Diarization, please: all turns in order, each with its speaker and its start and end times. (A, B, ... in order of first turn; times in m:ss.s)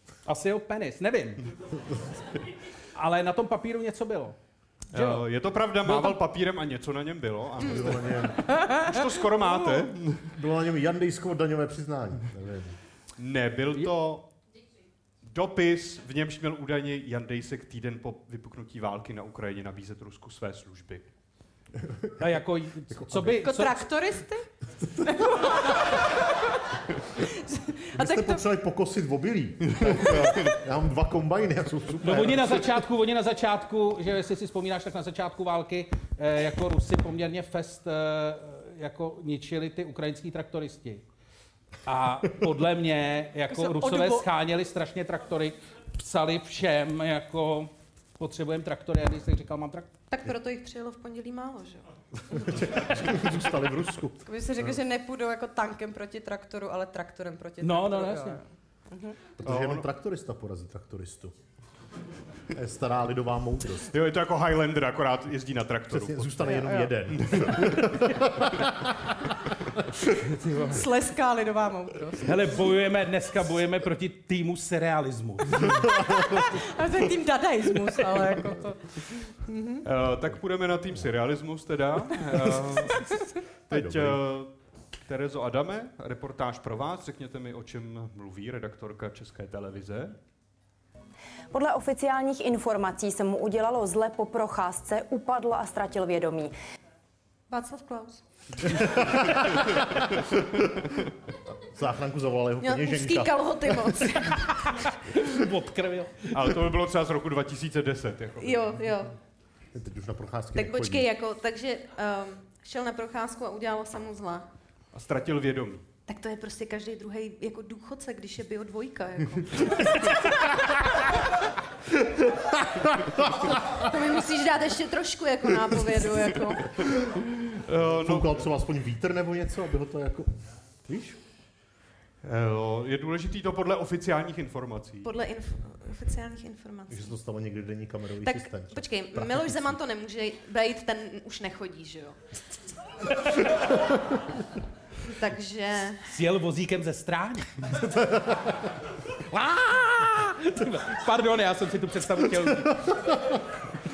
0:00.3-0:01.4 A
0:03.0-0:04.4 A
0:04.9-0:05.3 A
0:04.9-0:10.3 B
0:07.6-0:08.4 C
0:10.3-0:12.8 C
0:13.2-0:14.3 B
0:15.2-0:21.1 B
0:22.2-0:23.8 A
0:22.9-0:23.4 C
0:23.4-0:24.5 D
0:25.0-0:26.4 D
0:27.2-0:28.4 D
0:28.0-0:32.6 C
0:32.0-0:41.0 A
0:41.8-0:49.9 A
0:43.5-0:44.3 D
0:50.1-0:51.8 E
0:52.3-0:54.8 C
0:54.3-0:59.2 D
0:57.6-0:58.4 A
0:59.4-1:01.3 C
0:59.4-0:59.8 B
1:02.5-1:03.9 C
1:03.9-1:06.5 B
1:05.9-1:08.8 C
1:06.4-1:06.9 D
1:10.3-1:10.8 A
1:10.7-1:12.3 D
1:12.2-1:15.7 A
1:16.1-1:19.8 D
1:19.8-1:23.1 B
1:23.7-1:24.5 B
1:23.7-1:24.2 C
1:25.1-1:30.2 B
1:31.5-1:36.6 F
1:37.5-1:38.2 E
1:38.7-1:40.3 C
1:41.7-1:43.4 C
1:42.6-1:44.5 E
1:44.8-1:46.6 A
1:46.3-1:48.8 B
1:48.4-1:49.1 E
1:49.7-1:51.1 C
1:50.6-1:54.5 E
1:54.9-1:55.8 B
1:56.1-2:00.4 E
2:02.0-2:03.7 C
2:03.8-2:07.0 E
2:07.5-2:08.5 B
2:07.8-2:11.2 C
2:12.2-2:15.1 B
2:15.0-2:17.1 E
2:16.9-2:19.8 C
2:18.2-2:22.2 E
2:25.1-2:26.0 E
2:26.1-2:27.7 A
2:27.7-2:28.6 C
2:29.3-2:32.8 A
2:32.8-2:33.4 C